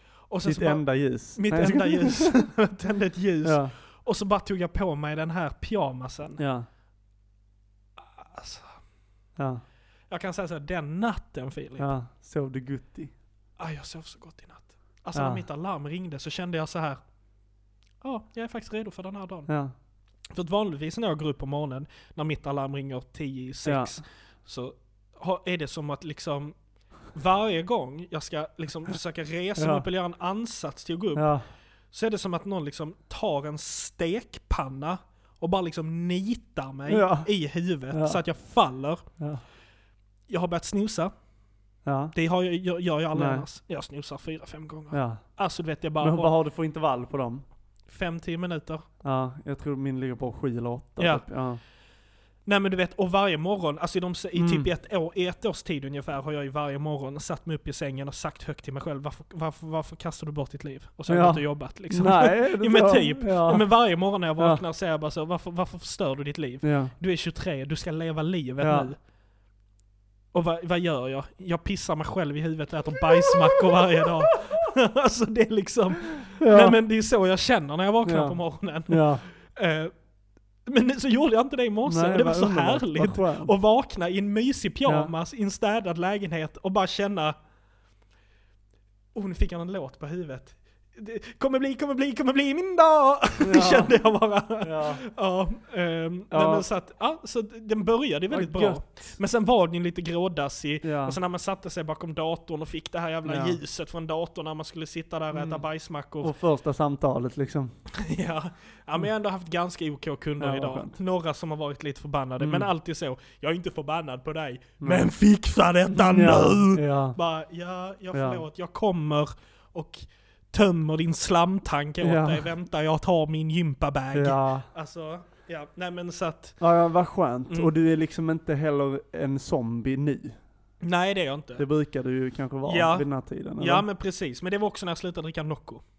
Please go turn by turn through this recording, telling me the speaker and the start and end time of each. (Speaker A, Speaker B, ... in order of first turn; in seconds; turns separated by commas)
Speaker A: 0.3-0.8, Speaker B: 0.4-2.4, Speaker A: 1.4-6.4, Speaker B: 3.4-3.7, Speaker B: 6.4-6.7, Speaker A: 8.0-8.8, Speaker B: 9.4-9.6, Speaker A: 10.1-11.9, Speaker B: 11.8-13.1, Speaker A: 13.6-17.0, Speaker B: 15.1-15.4, Speaker A: 18.0-19.5, Speaker B: 19.5-19.7, Speaker A: 20.3-26.6, Speaker B: 23.6-24.0, Speaker A: 27.1-31.3, Speaker B: 29.6-29.8, Speaker B: 31.1-31.4, Speaker A: 31.9-39.0, Speaker B: 36.9-37.3, Speaker B: 37.9-38.2, Speaker A: 40.3-41.1, Speaker B: 41.9-42.1, Speaker A: 42.1-46.3, Speaker B: 43.1-43.4, Speaker B: 44.9-45.2, Speaker B: 46.0-47.4, Speaker A: 47.9-48.8, Speaker B: 49.0-51.6, Speaker A: 51.0-51.2, Speaker A: 52.5-69.0, Speaker B: 54.3-54.7, Speaker B: 61.1-63.6, Speaker B: 66.6-66.9, Speaker B: 68.6-68.9, Speaker A: 70.3-79.9, Speaker B: 73.1-74.6, Speaker B: 76.3-76.8, Speaker B: 78.0-79.2, Speaker A: 80.7-87.3, Speaker B: 81.8-83.5, Speaker B: 84.8-85.1, Speaker A: 89.1-106.3, Speaker B: 93.4-94.0, Speaker B: 94.6-95.0, Speaker B: 96.3-96.7, Speaker B: 98.3-99.2, Speaker B: 100.8-101.2, Speaker B: 103.2-103.6, Speaker B: 105.3-105.6, Speaker B: 106.2-107.7, Speaker A: 107.9-126.6, Speaker B: 110.4-111.0, Speaker B: 112.4-112.7, Speaker B: 114.8-115.1, Speaker B: 115.9-117.2, Speaker B: 118.1-118.4, Speaker B: 122.0-122.5, Speaker B: 124.1-124.7, Speaker B: 126.6-130.4, Speaker A: 130.8-131.6, Speaker B: 131.6-133.8, Speaker A: 132.6-133.1, Speaker A: 133.6-135.8